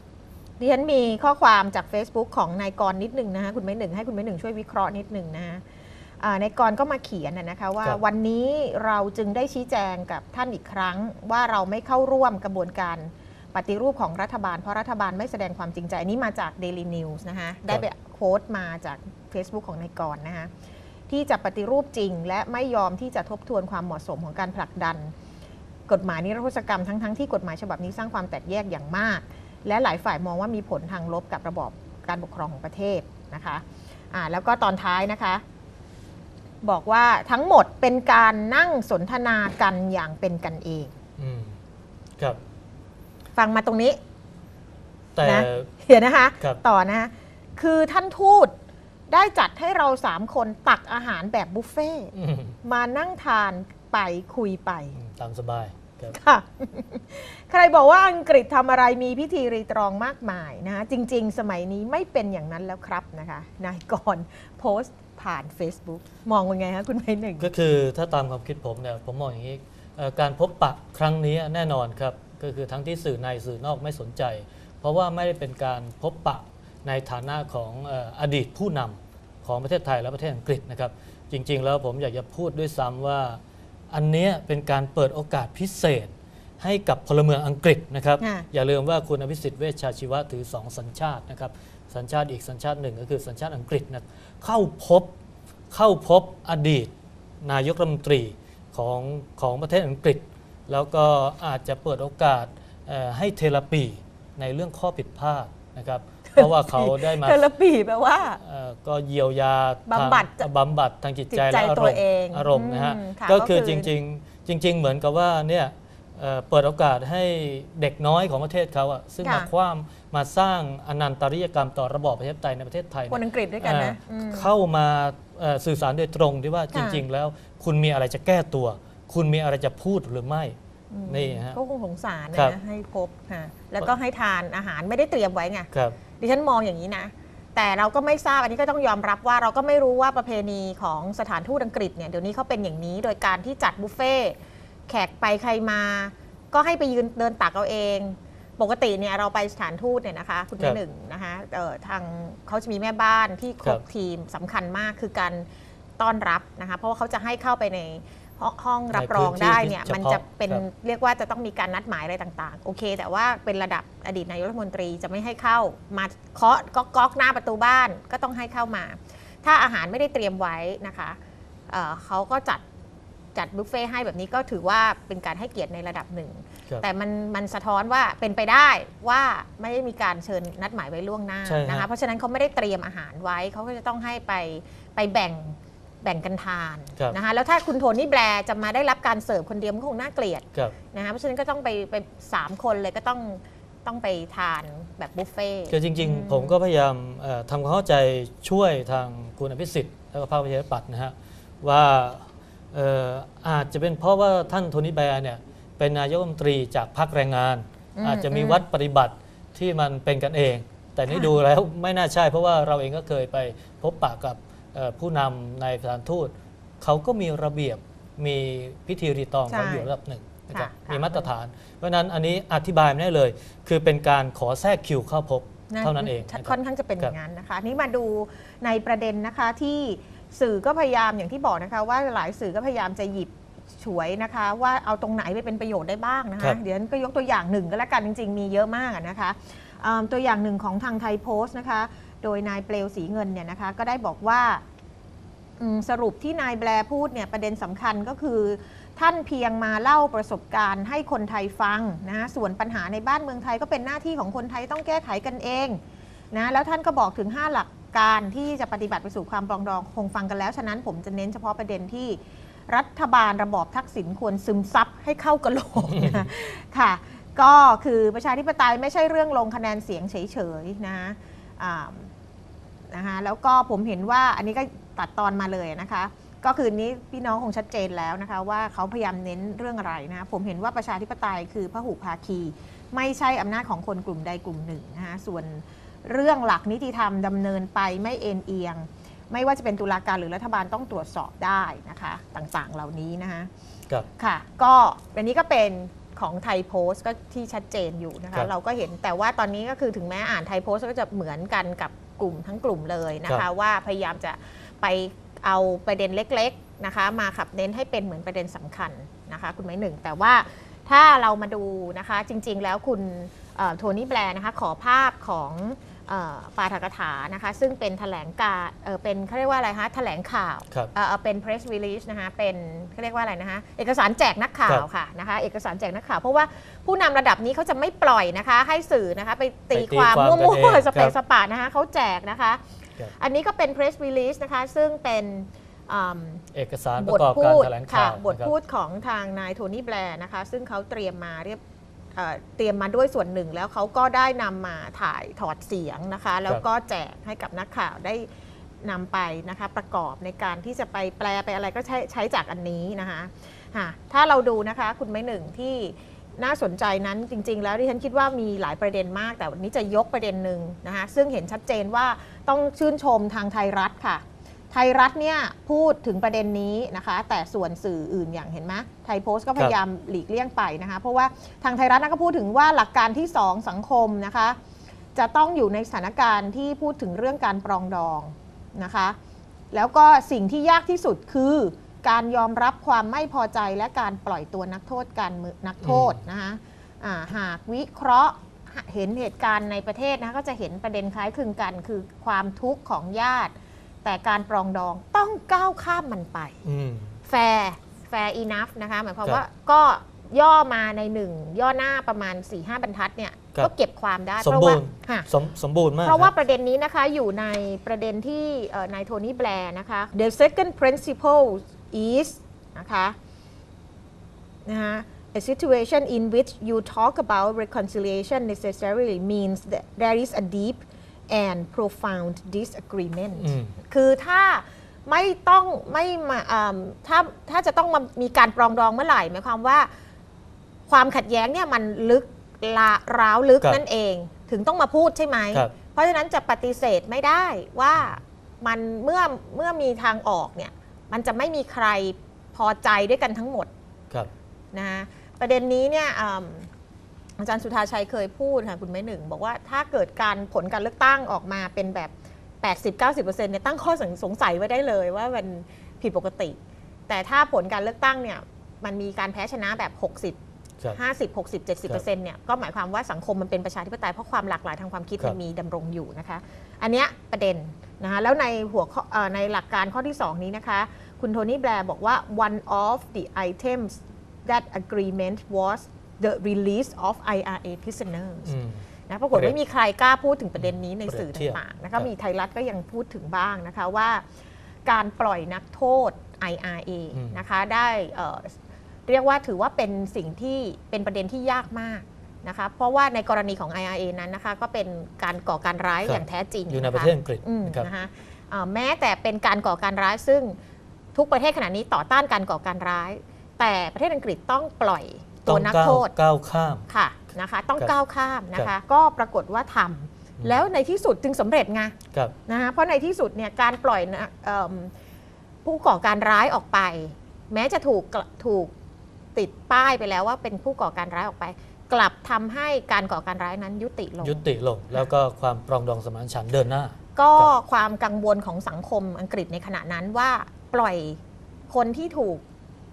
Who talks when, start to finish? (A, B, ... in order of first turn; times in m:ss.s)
0:00.6-0:05.6 A
0:06.2-0:20.5 A
0:21.1-0:25.1 A
0:25.9-0:35.4 A
0:36.6-0:40.9 A
0:41.2-0:41.6 B
0:43.4-0:44.0 A
0:45.1-0:45.7 B
0:45.2-0:48.5 A
0:49.1-0:55.0 A
0:52.1-0:52.6 B
0:55.0-0:56.2 B
0:56.1-1:07.5 A
1:07.4-1:35.1 B
1:28.2-1:28.4 A
1:35.7-1:47.4 B
1:46.3-1:48.4 A
1:48.4-2:10.6 B
1:49.9-1:50.5 A
1:51.3-1:53.9 A
1:59.2-1:59.5 A
2:03.1-2:04.5 A
2:06.7-2:07.0 A
2:10.9-2:24.4 A
2:11.1-2:11.6 B
2:24.9-2:35.5 A
2:36.0-2:51.2 A
2:38.9-2:40.6 B
2:51.7-2:52.6 A
2:53.3-3:16.5 A
3:01.4-3:01.9 B
3:15.7-3:47.1 B
3:28.0-3:28.6 A
3:39.5-3:39.9 A
3:40.5-3:41.3 A
3:45.7-4:04.6 A
4:05.6-4:15.8 A
4:16.3-4:32.1 A
4:32.9-4:53.5 A
4:54.2-5:32.6 A
5:29.7-5:31.1 B
5:33.2-5:36.4 A
5:36.5-5:38.5 B
5:37.0-5:41.6 A
5:42.1-5:48.3 A
5:48.8-6:14.6 A
6:15.1-6:19.2 A
6:19.7-6:36.6 A
6:25.8-6:26.2 B
6:36.6-6:37.1 B
6:37.2-6:45.3 A
6:44.4-6:46.3 B
6:46.0-6:53.2 A
6:54.6-7:09.9 A
7:03.4-7:03.8 B
7:10.9-7:23.7 A
7:24.7-7:26.7 A
7:27.4-7:40.4 A
7:40.9-7:58.5 A
7:58.4-7:59.6 B
7:59.1-8:04.2 A
8:00.6-8:02.1 B
8:04.8-8:08.6 A
8:07.1-8:07.4 B
8:09.1-8:20.6 A
8:16.0-8:17.9 B
8:21.1-8:26.1 A
8:25.4-8:26.8 B
8:26.9-8:34.9 A
8:35.6-8:38.7 A
8:39.3-8:44.4 A
8:44.2-8:47.5 B
8:47.2-8:51.2 A
8:51.7-8:52.4 A